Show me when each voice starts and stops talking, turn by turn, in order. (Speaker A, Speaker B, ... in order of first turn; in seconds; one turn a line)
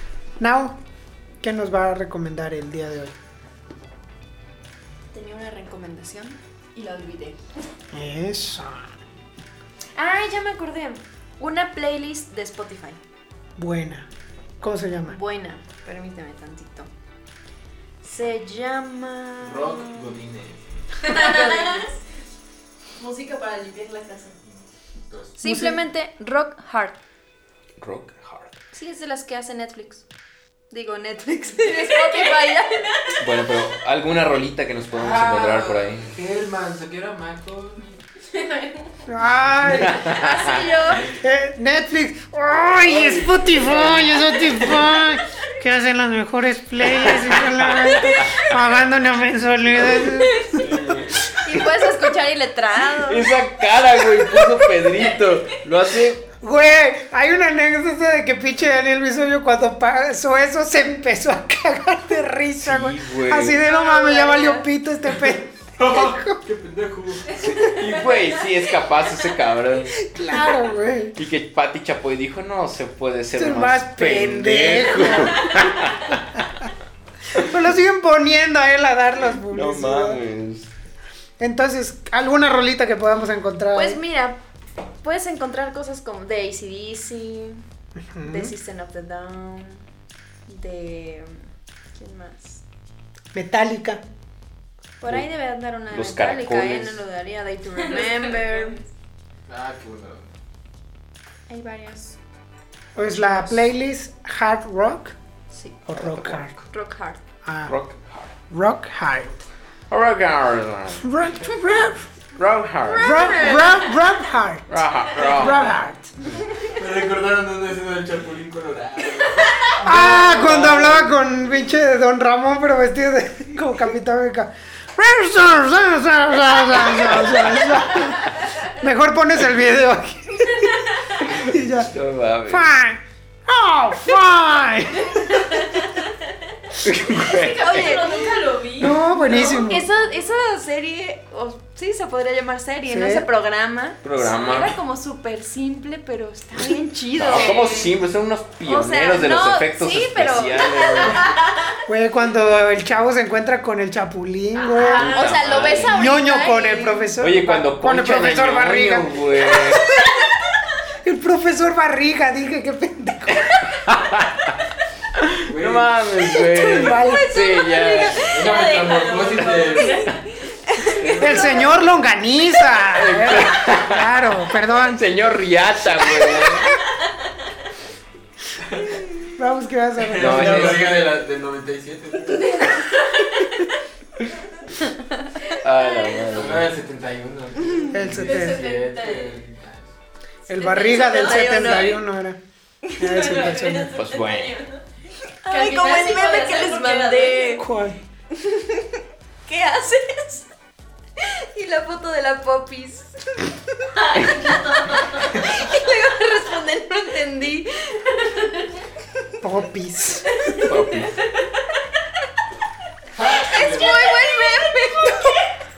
Speaker A: 0.4-0.8
Speaker A: 1.4-3.1
Speaker B: 5.1-7.4
Speaker A: 7.9-8.9
Speaker B: 9.9-13.0
Speaker A: 13.6-14.1
Speaker A: 14.6-15.2
Speaker B: 15.1-16.9
Speaker B: 18.0-20.1
Speaker C: 19.4-21.1
Speaker D: 21.0-21.9
Speaker B: 21.1-21.9
Speaker D: 22.9-24.3
Speaker C: 24.5-25.4
Speaker B: 25.4-27.0
Speaker A: 25.4-25.8
Speaker E: 27.8-28.5
Speaker B: 28.7-30.0
Speaker B: 30.7-32.9
Speaker D: 31.6-33.1
Speaker E: 33.2-36.1
Speaker C: 34.9-38.0
Speaker D: 38.3-38.9
Speaker A: 39.1-40.1
Speaker E: 39.6-40.7
Speaker B: 40.0-41.1
Speaker A: 41.1-50.7
Speaker C: 42.8-44.8
Speaker E: 46.9-48.5
Speaker E: 49.8-51.3
Speaker D: 50.1-50.4
Speaker B: 51.4-53.3
Speaker E: 52.9-56.2
Speaker A: 56.4-66.4
Speaker E: 62.6-63.6
Speaker D: 63.6-64.6
Speaker C: 65.7-67.4
Speaker D: 67.3-68.4
Speaker E: 67.4-70.0
Speaker A: 70.0-71.2
Speaker E: 71.1-76.5
Speaker A: 73.3-75.7
Speaker A: 77.3-80.2
Speaker E: 79.5-80.7
Speaker A: 81.4-84.0
Speaker B: 83.7-84.4
Speaker B: 85.0-87.6
Speaker A: 88.1-88.5
Speaker B: 88.2-89.8
Speaker B: 90.5-91.4
Speaker B: 91.9-92.6
Speaker A: 93.3-94.0
Speaker B: 95.0-98.8
Speaker E: 95.9-97.0
Speaker D: 97.8-98.8
Speaker C: 99.5-100.3
Speaker B: 101.5-102.2
Speaker A: 102.9-105.2
Speaker A: 105.8-106.5
Speaker E: 106.0-106.5
Speaker B: 106.7-107.2
Speaker A: 107.4-107.7
Speaker E: 107.7-108.3
Speaker A: 108.5-109.4
Speaker E: 109.9-111.1
Speaker A: 111.0-112.1
Speaker E: 112.3-113.4
Speaker B: 112.8-113.9
Speaker A: 113.0-116.1
Speaker E: 114.7-115.7
Speaker C: 116.7-121.0
Speaker A: 119.8-130.8
Speaker E: 119.8-120.9
Speaker E: 126.9-128.1
Speaker D: 130.4-131.2
Speaker E: 131.2-132.7
Speaker A: 131.3-131.9
Speaker A: 132.5-135.7
Speaker D: 135.1-136.1
Speaker E: 136.8-138.0
Speaker D: 137.1-139.7
Speaker B: 137.6-138.2
Speaker A: 138.8-139.9
Speaker B: 139.3-147.7
Speaker A: 142.8-143.2
Speaker E: 144.0-144.8
Speaker E: 147.2-151.3
Speaker D: 147.3-147.9
Speaker B: 148.6-151.2
Speaker A: 151.8-159.5
Speaker B: 154.6-157.1
Speaker D: 154.8-155.6
Speaker E: 154.9-156.1
Speaker E: 157.2-159.8
Speaker A: 161.0-163.7
Speaker E: 163.5-164.6
Speaker E: 165.1-168.3
Speaker C: 165.5-166.0
Speaker A: 166.6-167.3
Speaker B: 166.6-168.2
Speaker D: 167.0-171.7
Speaker C: 168.2-170.0
Speaker A: 171.1-175.0
Speaker E: 172.9-176.8
Speaker C: 178.6-179.0
Speaker A: 179.4-180.9
Speaker C: 180.0-182.7
Speaker E: 180.2-181.1
Speaker D: 182.4-183.7
Speaker D: 185.5-186.5
Speaker E: 185.6-186.7
Speaker C: 186.3-189.9
Speaker A: 187.9-188.6
Speaker D: 188.2-189.3
Speaker D: 190.5-192.0
Speaker A: 190.5-192.4
Speaker B: 190.8-192.0
Speaker A: 193.0-194.0
Speaker D: 193.0-194.8
Speaker E: 193.9-194.6
Speaker B: 195.4-197.6
Speaker D: 195.5-197.6
Speaker A: 197.5-198.0
Speaker B: 198.3-200.5
Speaker B: 201.2-203.2
Speaker D: 203.9-205.7
Speaker B: 205.2-208.1
Speaker D: 208.2-208.7
Speaker A: 209.4-210.3
Speaker E: 210.6-211.2
Speaker D: 211.2-211.5
Speaker C: 213.1-214.0
Speaker B: 213.2-215.4
Speaker D: 213.5-215.4